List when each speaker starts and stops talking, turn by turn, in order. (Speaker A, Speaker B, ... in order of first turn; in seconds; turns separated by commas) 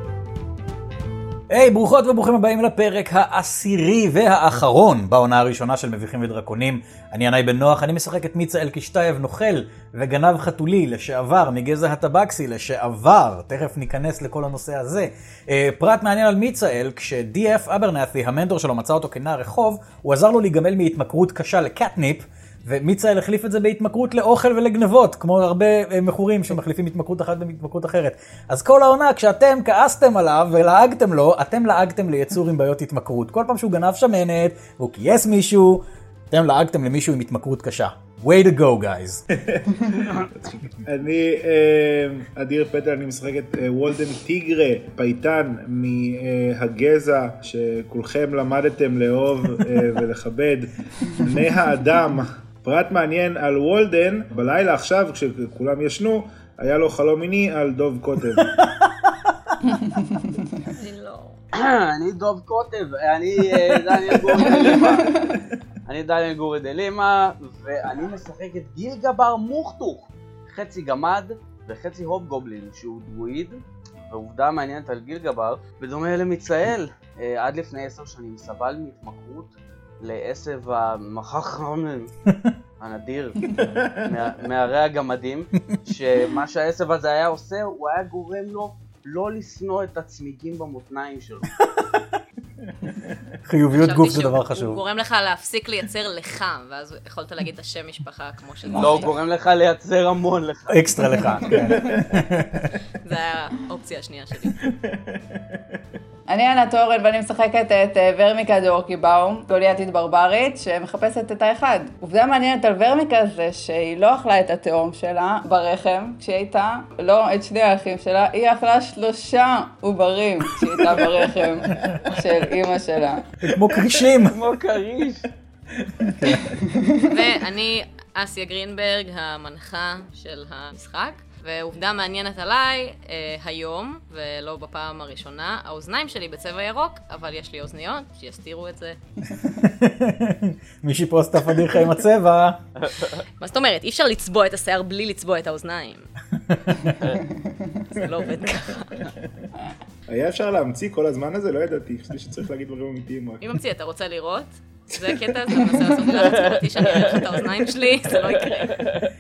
Speaker A: 1.5-39.2, Speaker B: 39.4-58.5, Speaker A: 58.4-58.9, Speaker C: 59.6-60.8, Speaker D: 60.8-61.4, Speaker E: 61.5-65.2, Speaker C: 64.4-65.4, Speaker E: 65.9-82.1, Speaker E: 82.8-83.5, Speaker B: 83.6-84.1, Speaker E: 84.0-91.5, Speaker A: 93.5-94.8, Speaker D: 93.7-99.1, Speaker E: 98.8-101.0, Speaker A: 100.7-102.7, Speaker B: 101.5-102.0, Speaker D: 103.0-104.7, Speaker B: 104.6-105.6, Speaker C: 106.3-123.3, Speaker A: 123.4-124.4, Speaker B: 123.6-123.8, Speaker E: 124.3-125.3, Speaker B: 125.8-126.4, Speaker A: 126.1-126.5, Speaker C: 126.6-127.1, Speaker D: 127.0-139.0, Speaker A: 139.4-142.6, Speaker E: 142.8-143.2, Speaker D: 143.4-146.1, Speaker A: 146.5-147.0, Speaker D: 147.9-149.1, Speaker B: 150.1-153.5, Speaker D: 153.4-158.9, Speaker B: 154.9-155.4